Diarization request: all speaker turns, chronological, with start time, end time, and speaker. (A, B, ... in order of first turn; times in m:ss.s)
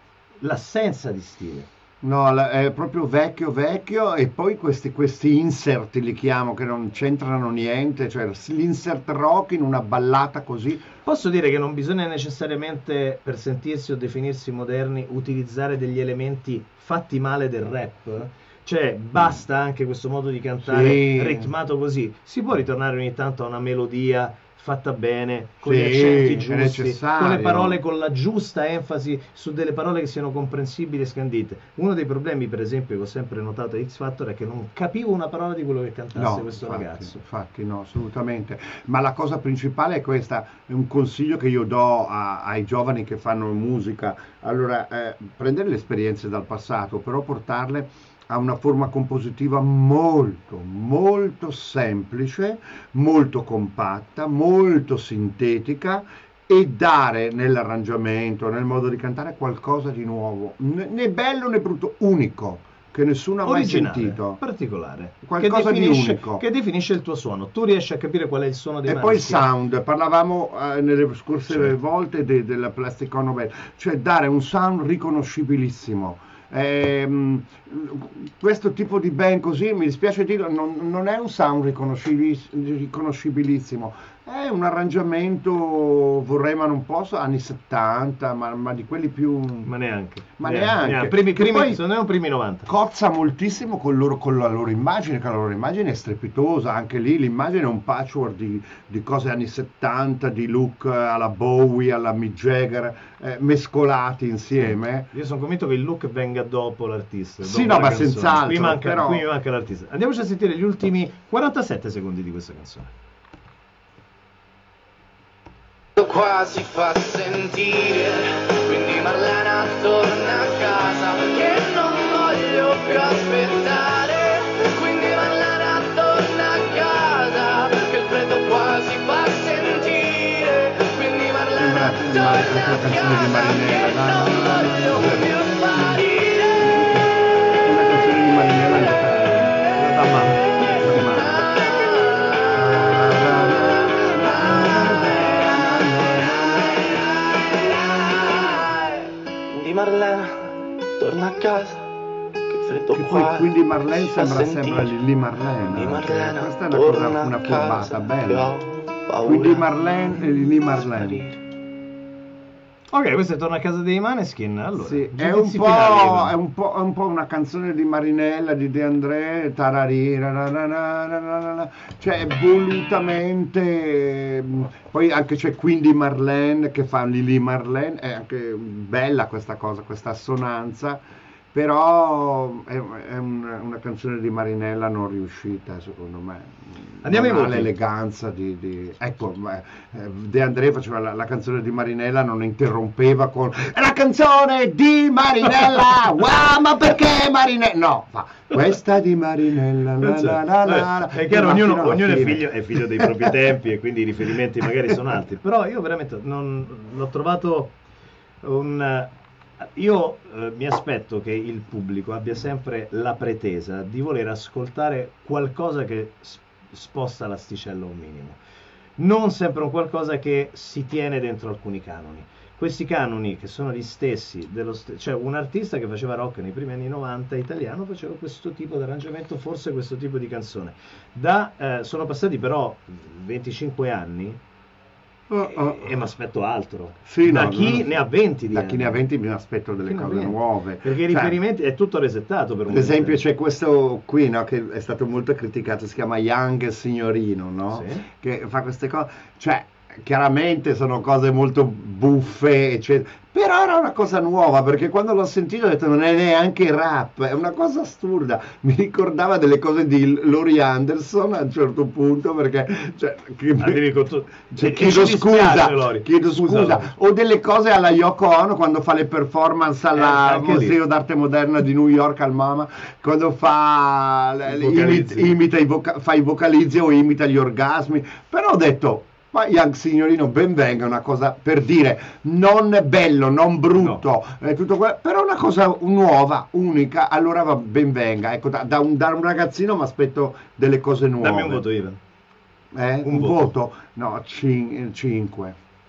0:00.4-0:01.7 A
0:02.0-0:10.9 B
0:11.0-0:37.2 A
0:20.6-0:21.5 B
0:25.6-0:27.8 B
0:36.1-1:04.4 B
1:03.4-1:09.4 A
1:05.2-1:06.4 B
1:08.8-1:29.7 B
1:29.6-1:32.7 A
1:30.4-1:31.8 B
1:32.7-1:45.1 B
1:44.6-1:52.9 A
1:47.4-1:49.2 B
1:56.0-2:16.9 C
2:11.5-2:16.0 B
2:16.6-2:21.5 B
2:19.7-2:20.5 A
2:20.5-2:22.7 C
2:22.5-2:27.0 B
2:24.5-2:25.3 C
2:26.8-2:31.9 C
2:32.5-2:35.0 C
2:32.9-2:38.5 B
2:35.6-2:41.4 C
2:39.2-2:41.2 B
2:42.9-2:46.3 A
2:44.8-3:01.0 B
3:01.5-3:23.3 B
3:07.0-3:07.7 A
3:20.0-3:27.7 A
3:28.4-3:38.4 A
3:39.0-3:54.4 A
3:55.3-3:55.9 B
3:55.4-3:59.0 A
3:57.0-3:58.0 B
3:58.5-4:01.4 B
3:59.8-4:03.2 A
4:02.7-4:23.9 B
4:07.7-4:08.1 A
4:23.6-4:26.9 A
4:24.5-4:51.6 B
4:29.9-4:30.8 A
4:34.5-4:35.4 A
4:43.8-4:44.0 A
4:51.2-4:52.0 A
4:52.7-4:55.6 B
4:53.0-4:53.4 A